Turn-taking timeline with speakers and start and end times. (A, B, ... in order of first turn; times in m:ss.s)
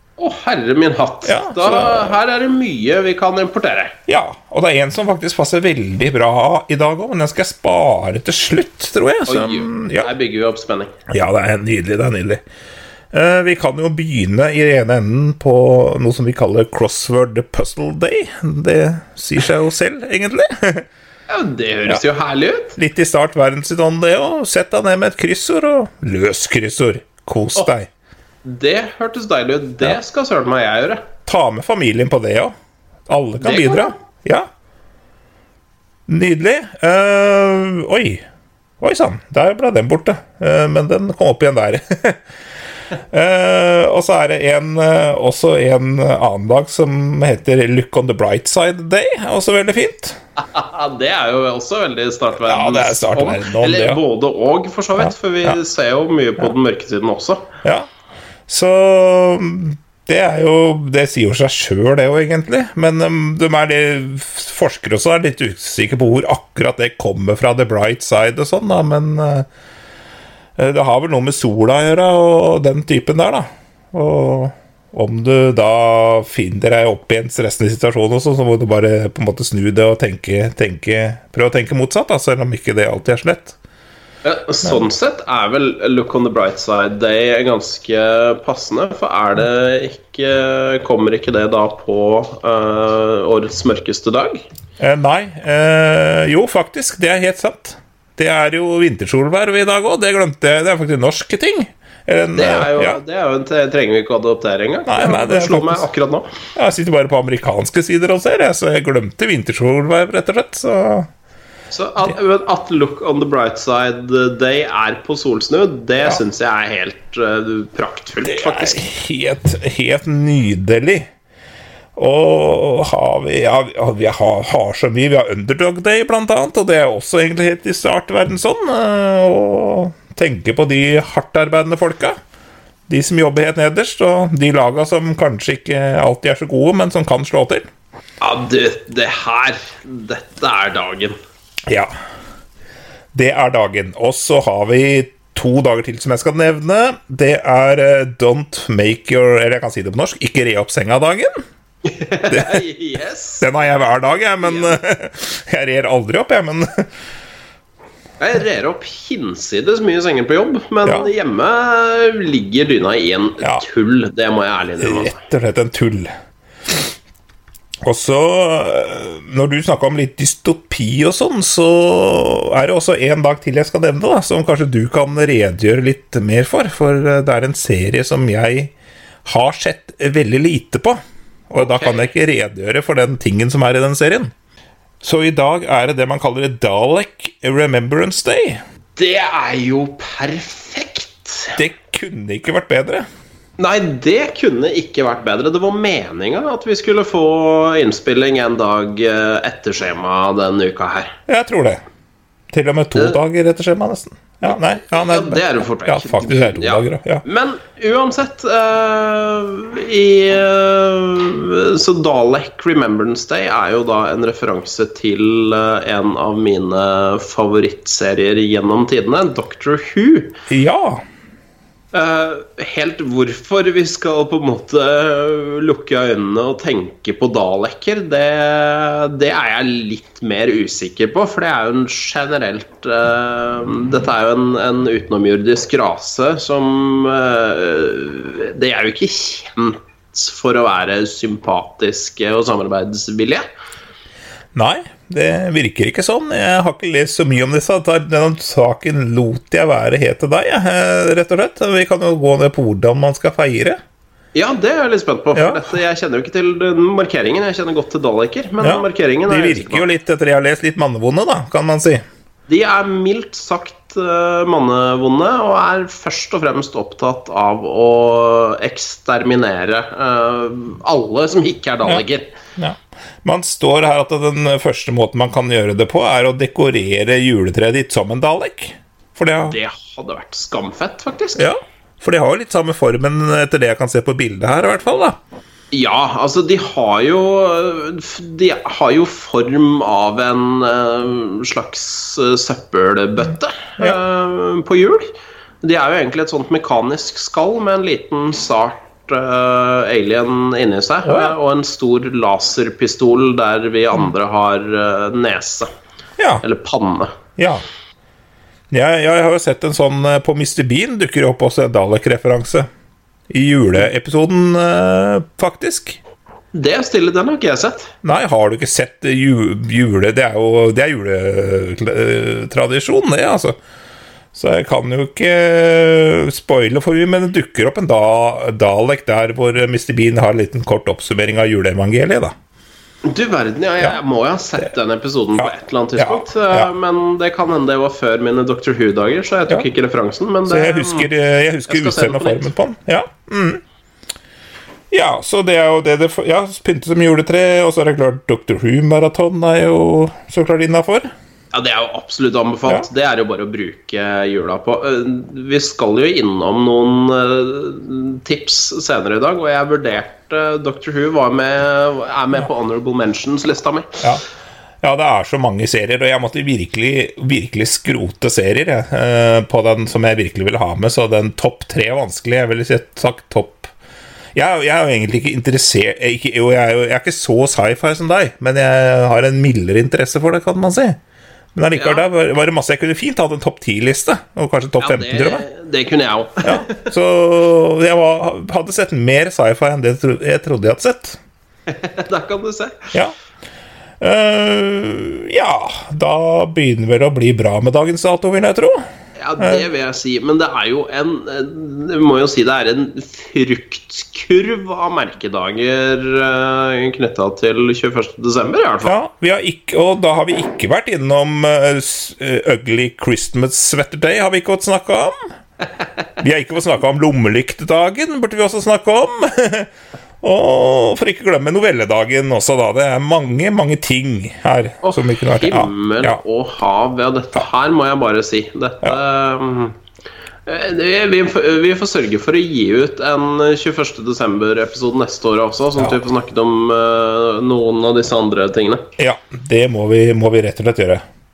0:00.2-0:04.0 A
0:01.2-0:02.2 B
0:04.1-0:10.1 B
0:09.3-0:10.9 A
0:11.1-0:12.4 B
0:13.1-0:20.9 B
0:21.3-0:22.8 A
0:22.8-0:27.9 B
0:28.4-0:31.1 A
0:31.2-0:32.5 B
0:33.1-0:34.5 B
0:33.4-0:33.9 A
0:36.1-0:38.2 B
0:38.8-0:42.2 B
0:43.1-0:50.2 B
0:50.4-0:57.5 A
0:52.4-0:54.0 B
0:55.0-0:55.6 B
0:58.5-1:09.5 B
1:10.6-1:23.6 B
1:24.2-1:34.4 A
1:34.8-1:43.0 B
1:42.4-1:46.4 A
1:44.9-1:45.9 B
1:46.6-1:51.1 B
1:51.7-1:58.9 A
1:58.2-2:01.1 B
2:02.0-2:12.2 B
2:12.9-2:17.7 B
2:18.2-2:21.2 A
2:23.1-2:31.4 B
2:31.8-2:33.4 A
2:32.3-2:32.6 B
2:33.4-2:36.8 B
2:34.4-2:34.8 A
2:38.2-2:45.2 A
2:44.8-2:46.1 B
2:47.8-2:58.7 B
2:59.3-3:04.3 B
3:01.6-3:02.0 A
3:05.0-3:08.6 B
3:09.0-3:11.6 A
3:11.6-3:13.1 B
3:13.6-3:21.1 A
3:21.3-3:21.8 B
3:22.5-3:27.2 B
3:24.4-3:40.4 A
3:40.5-3:41.0 B
3:41.9-4:03.4 A
4:04.6-4:13.8 B
4:14.3-4:19.9 A
4:15.4-4:15.7 B
4:18.6-4:22.0 B
4:22.5-4:32.3 A
4:32.6-4:39.6 B
4:39.5-4:41.5 A
4:41.4-4:45.2 B
4:45.7-5:05.7 A
5:01.0-5:01.3 B
5:06.4-5:07.1 A
5:07.4-5:07.6 B
5:08.7-5:12.7 B
5:13.3-5:16.0 B
5:16.5-5:17.9 A
5:18.0-5:23.6 B
5:24.3-5:32.3 B
5:33.0-5:41.1 A
5:35.4-5:36.7 B
5:40.4-5:43.6 B
5:41.7-5:42.5 A
5:44.9-5:51.1 B
5:51.5-6:04.0 A
6:04.8-6:13.7 B
6:14.4-6:21.0 B
6:21.6-6:25.4 B
6:21.8-6:22.0 A
6:24.8-6:26.6 A
6:26.4-6:31.2 B
6:31.7-6:32.9 A
6:34.0-6:38.8 B
6:39.2-6:48.9 A
6:39.4-6:39.6 B
6:48.8-6:55.3 B
6:56.2-6:59.7 B
7:00.2-7:06.2 B
7:04.8-7:09.8 A
7:10.4-7:18.9 A
7:19.0-7:21.0 B